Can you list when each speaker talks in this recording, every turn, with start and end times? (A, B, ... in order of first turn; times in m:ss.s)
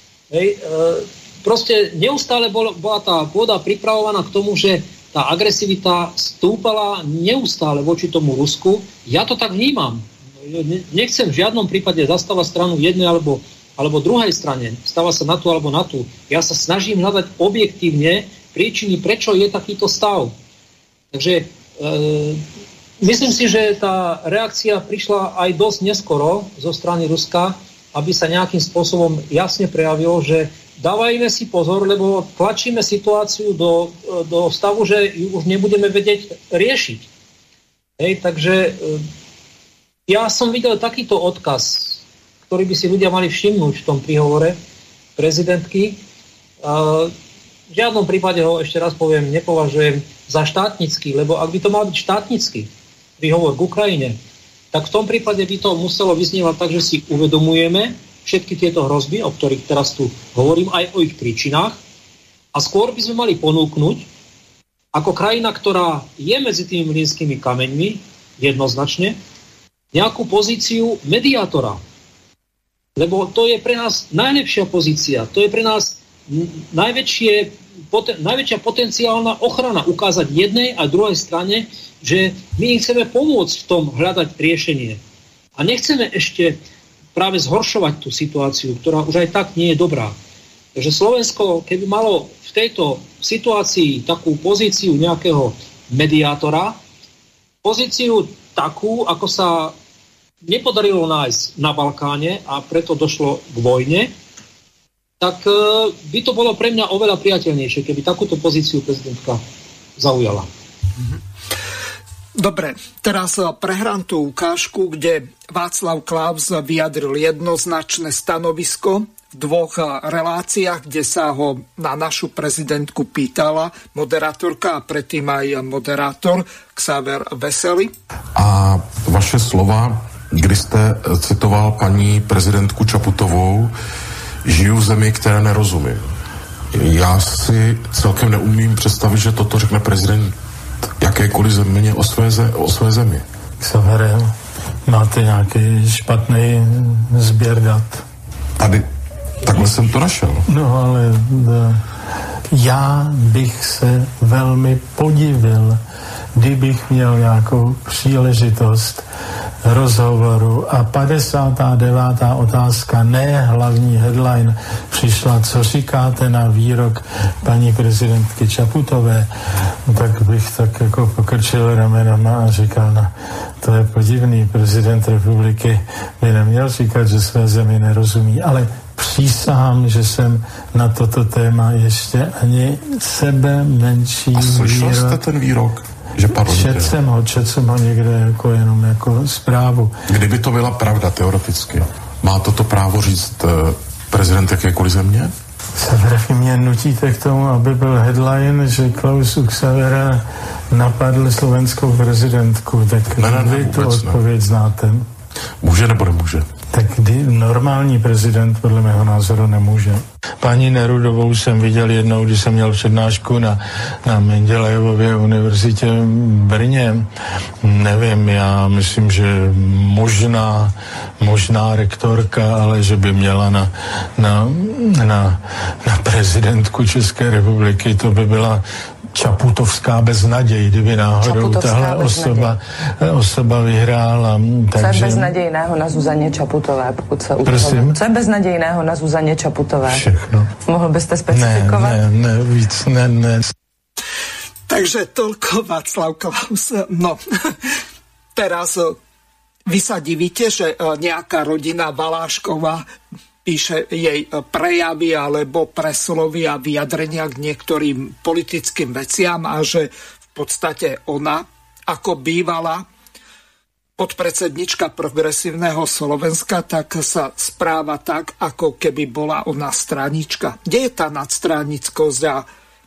0:00.3-0:20.3 A
0:21.1-0:22.4 A
0:23.0-0:37.1 A
0:38.0-0:39.0 A
0:40.1-0:44.6 A
0:45.2-0:46.0 A
0:46.6-0:47.1 A
0:47.7-0:54.2 A
0:54.7-1:01.8 A
1:02.5-1:04.1 A
1:04.9-1:09.2 A
1:09.9-1:11.8 A
1:13.0-1:25.0 A
1:25.6-1:26.6 A
1:27.1-1:30.1 A
1:30.8-1:36.8 A
1:37.6-1:39.7 A
1:40.4-1:44.1 A
1:45.2-1:49.4 A
1:50.0-1:50.5 A
1:52.3-2:07.9 B
2:08.4-2:13.7 C
2:14.4-2:16.1 C
2:16.7-2:20.3 C
2:21.0-2:23.2 C
2:23.6-2:24.3 D
2:24.9-2:28.0 D
2:28.6-2:28.8 C
2:29.4-2:30.4 C
2:30.4-2:31.8 D
2:32.5-2:35.8 D
2:36.4-2:39.0 D
2:39.6-2:49.3 D
2:49.8-3:05.2 D
3:04.3-3:07.0 C
3:06.4-3:10.0 D
3:10.1-3:15.3 C
3:15.8-3:25.0 D
3:23.2-3:24.2 C
3:25.6-3:26.5 C
3:26.7-3:37.1 D
3:37.6-3:55.3 D
3:51.2-3:52.5 E
3:54.8-4:00.0 E
3:57.4-3:58.0 D
3:59.8-4:00.5 D
4:00.6-4:02.0 E
4:01.3-4:03.5 D
4:04.7-4:07.6 B
4:08.3-4:09.0 B
4:09.7-4:12.8 B
4:13.4-4:22.9 B
4:24.0-4:32.5 B